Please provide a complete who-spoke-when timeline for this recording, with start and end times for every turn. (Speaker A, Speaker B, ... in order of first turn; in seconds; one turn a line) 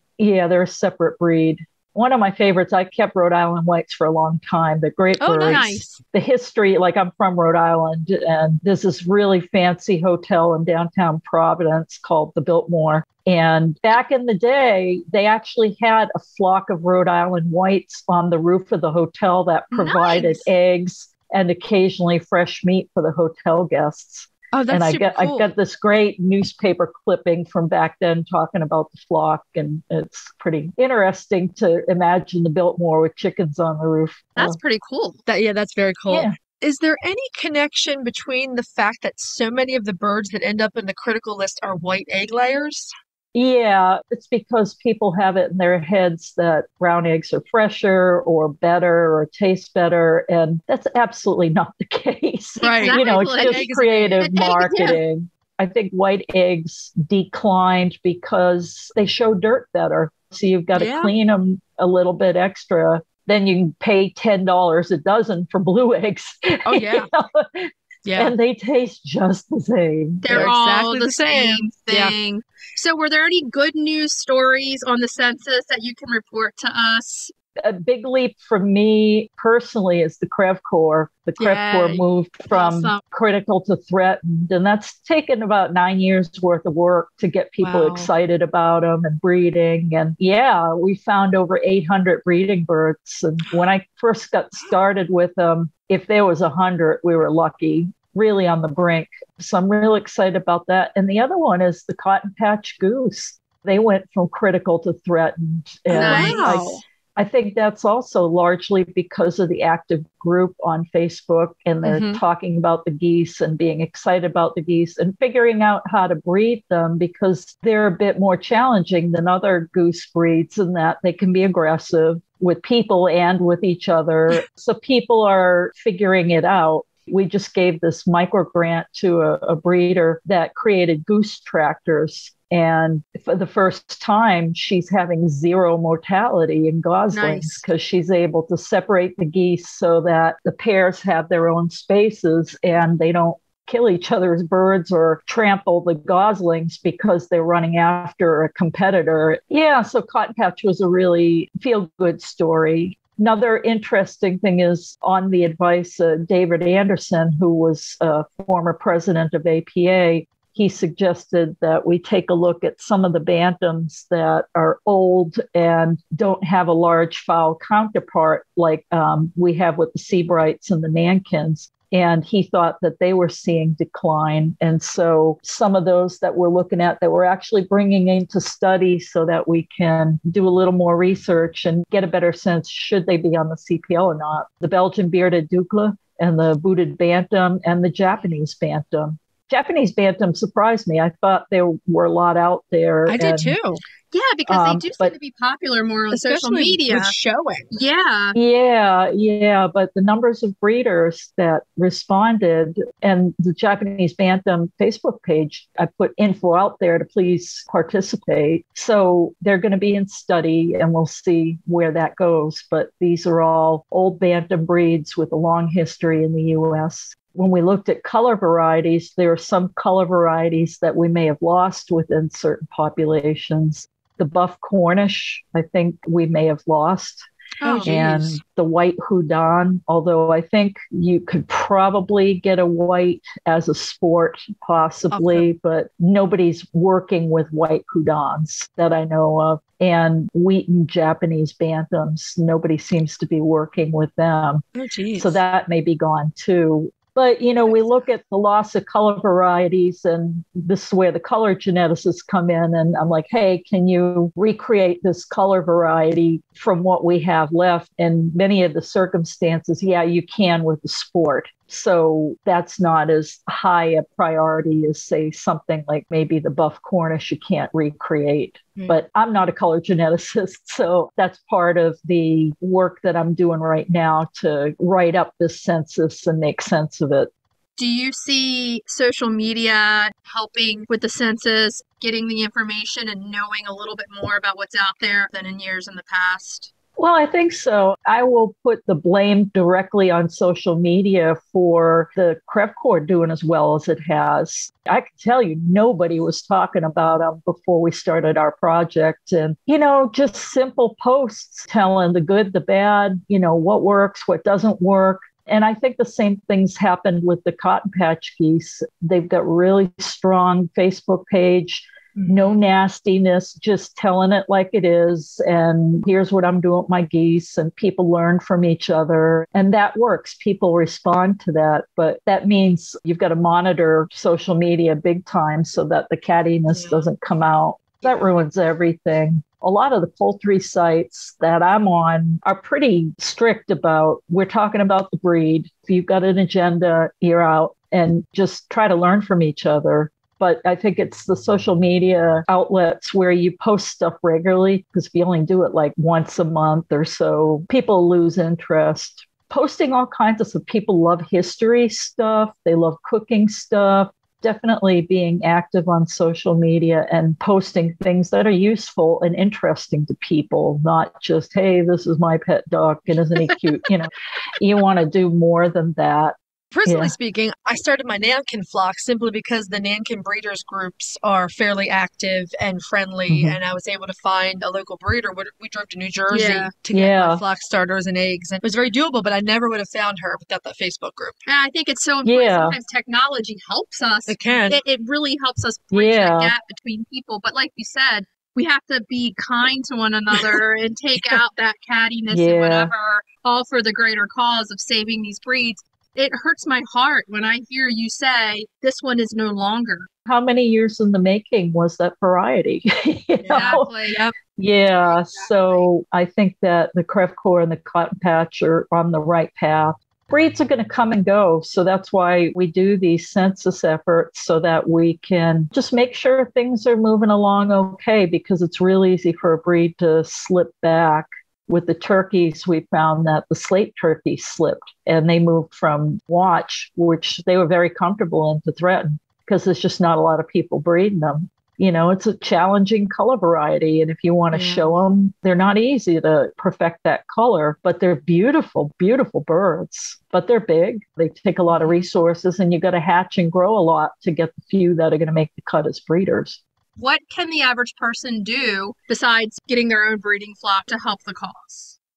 Speaker A: 0.2-34.6
Speaker B: 5.2-5.7
Speaker C: 5.2-6.0
Speaker C: 19.7-20.5
Speaker B: 24.5-25.5
Speaker C: 34.4-35.2
Speaker B: 35.3-42.9
Speaker A: 36.1-36.4
Speaker A: 43.3-70.5
Speaker C: 52.6-53.6
Speaker B: 52.6-54.2
Speaker C: 54.2-55.0
Speaker B: 60.7-61.1
Speaker B: 66.7-67.1
Speaker B: 68.0-68.3
Speaker C: 70.2-77.3
Speaker B: 70.3-72.1
Speaker A: 77.6-193.6
Speaker C: 81.4-83.0
Speaker B: 87.6-88.1
Speaker B: 105.9-106.8
Speaker C: 105.9-106.8
Speaker B: 111.8-112.2
Speaker C: 137.1-137.6
Speaker B: 193.1-193.8
Speaker C: 194.1-197.1
Speaker A: 194.5-195.1
Speaker B: 196.1-197.7
Speaker C: 197.7-198.4
Speaker A: 198.3-227.2
Speaker C: 227.6-227.9
Speaker B: 227.6-228.4
Speaker A: 227.8-244.6
Speaker B: 235.1-235.5
Speaker B: 244.8-245.4
Speaker A: 245.2-277.3
Speaker C: 277.8-286.7
Speaker A: 287.0-367.1
Speaker B: 312.1-312.6
Speaker B: 326.7-327.1
Speaker B: 366.7-381.4
Speaker A: 373.3-373.6
Speaker C: 376.3-376.7
Speaker A: 376.9-377.4
Speaker C: 381.4-400.1
Speaker A: 382.2-382.8
Speaker B: 384.3-384.8
Speaker A: 385.9-386.5
Speaker A: 392.3-392.9
Speaker A: 400.3-403.9
Speaker B: 403.4-404.3
Speaker C: 403.5-404.2
Speaker A: 404.6-446.6
Speaker C: 405.0-405.9
Speaker B: 434.5-434.9
Speaker B: 441.7-442.0
Speaker C: 447.0-451.9